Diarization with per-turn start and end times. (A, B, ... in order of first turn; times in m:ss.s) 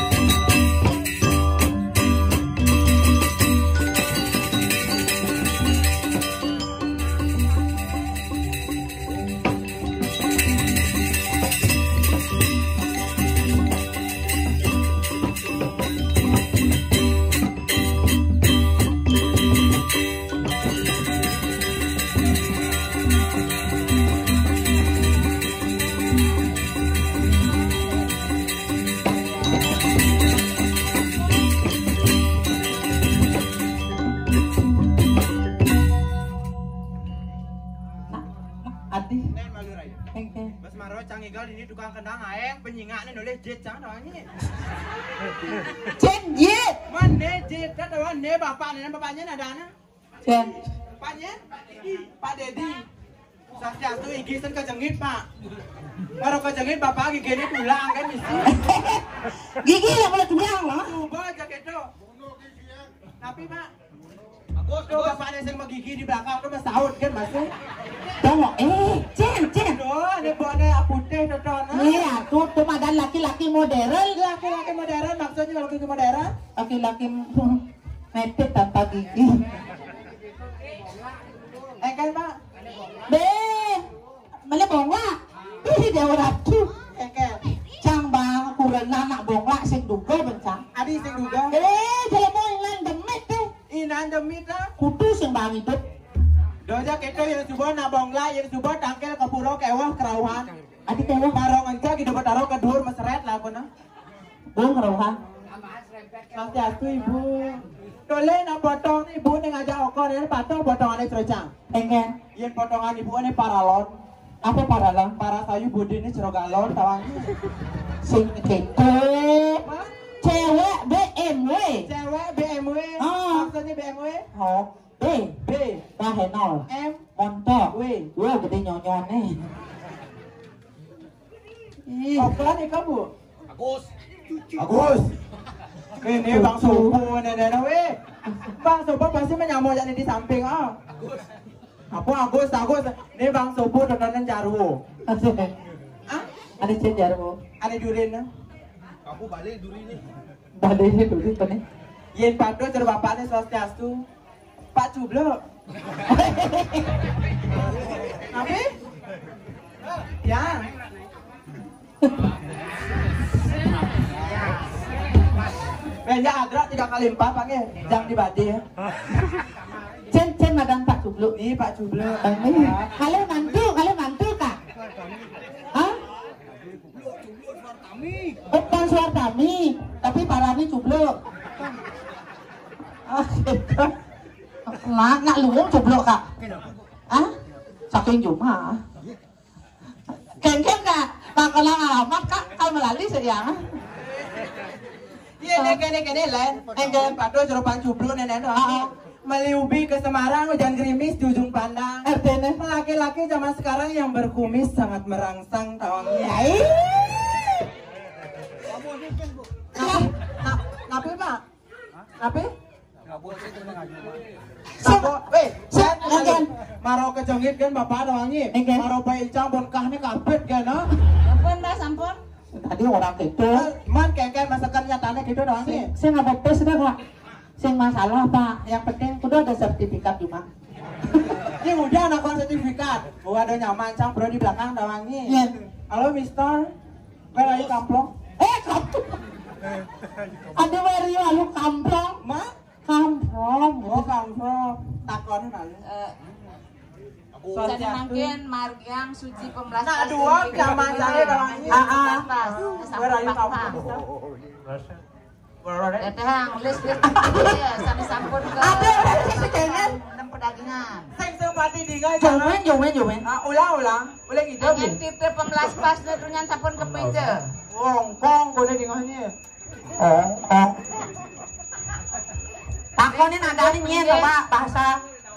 0:38.1-0:39.3 A
0:39.3-0:40.0 B
0:40.1-0:40.5 A
0:40.6-0:44.3 B
0:46.0-0:46.8 A
0:46.9-0:49.7 B
0:50.2-0:50.6 A
0:51.0-0:52.9 B
0:53.5-0:55.2 B
0:56.2-0:58.5 B
0:58.5-1:00.9 A
1:00.8-1:01.9 B
1:03.2-1:03.7 B
1:04.6-1:07.5 B
1:08.2-1:09.8 A
1:09.7-1:12.1 B
1:11.7-1:14.3 A
1:14.3-1:16.3 B
1:16.6-1:19.4 A
1:21.8-1:22.4 B
1:23.1-1:23.8 A
1:24.5-1:26.7 A
1:26.9-1:27.4 B
1:27.8-1:30.6 A
1:30.7-1:31.6 B
1:31.5-1:33.5 A
1:33.7-1:34.7 B
1:34.8-1:35.8 A
1:36.6-1:40.5 B
1:40.9-1:41.4 A
1:41.3-1:43.7 B
1:44.6-1:45.2 A
1:46.3-1:51.5 B
1:51.7-1:52.2 A
1:52.4-1:54.0 B
1:54.4-1:55.2 A
1:55.2-1:57.3 B
1:58.0-1:59.6 A
1:59.6-1:59.9 B
2:00.2-2:01.9 A
2:01.8-2:04.3 B
2:03.0-2:03.5 A
2:04.3-2:05.4 A
2:05.4-2:05.8 B
2:06.0-2:09.4 A
2:06.7-2:07.0 B
2:07.7-2:08.1 B
2:11.9-2:12.4 A
2:12.2-2:13.1 B
2:14.5-2:15.2 B
2:16.0-2:18.0 B
2:16.3-2:17.0 A
2:18.5-2:20.8 B
2:21.9-2:24.8 B
2:25.1-2:25.5 A
2:26.6-2:27.4 A
2:27.6-2:28.3 B
2:30.6-2:31.6 A
2:32.2-2:34.0 B
2:34.7-2:35.4 B
2:36.1-2:36.8 A
2:38.3-2:38.7 B
2:40.2-2:40.7 B
2:46.0-2:48.6 B
2:50.1-2:51.3 A
2:51.4-2:52.6 B
2:52.2-2:54.6 A
2:58.5-3:01.2 A
3:03.1-3:03.9 A
3:04.6-3:06.2 A
3:07.9-3:08.8 A
3:10.4-3:13.6 A
3:15.4-3:22.0 B
3:18.6-3:18.9 A
3:22.0-3:22.6 A
3:22.6-3:26.5 B
3:26.2-3:26.8 A
3:29.8-3:30.1 A
3:29.8-3:31.4 B
3:32.2-3:32.5 B
3:34.8-3:36.5 A
3:34.8-3:40.9 B
3:38.5-3:38.9 A
3:41.2-3:42.2 C
3:42.5-3:43.7 A
3:43.5-3:45.9 B
3:45.6-3:47.0 A
3:47.6-3:50.5 A
3:51.6-3:55.4 B
3:55.3-3:55.6 A
3:55.9-3:56.7 B
3:57.3-3:58.1 B
3:58.4-3:59.2 A
4:00.6-4:02.2 A
4:02.2-4:02.5 B
4:02.9-4:04.1 A
4:03.8-4:05.8 B
4:05.8-4:06.2 C
4:07.5-4:08.4 B
4:07.5-4:13.8 C
4:09.8-4:14.0 B
4:11.7-4:12.3 A
4:15.6-4:16.1 B
4:16.0-4:21.1 C
4:17.1-4:17.6 A
4:18.6-4:20.0 A
4:21.1-4:22.6 B
4:22.2-4:23.3 A
4:23.2-4:25.0 B
4:24.6-4:27.6 C
4:27.7-4:29.3 B
4:30.0-4:30.8 A
4:33.0-4:35.0 A
4:33.1-4:34.3 C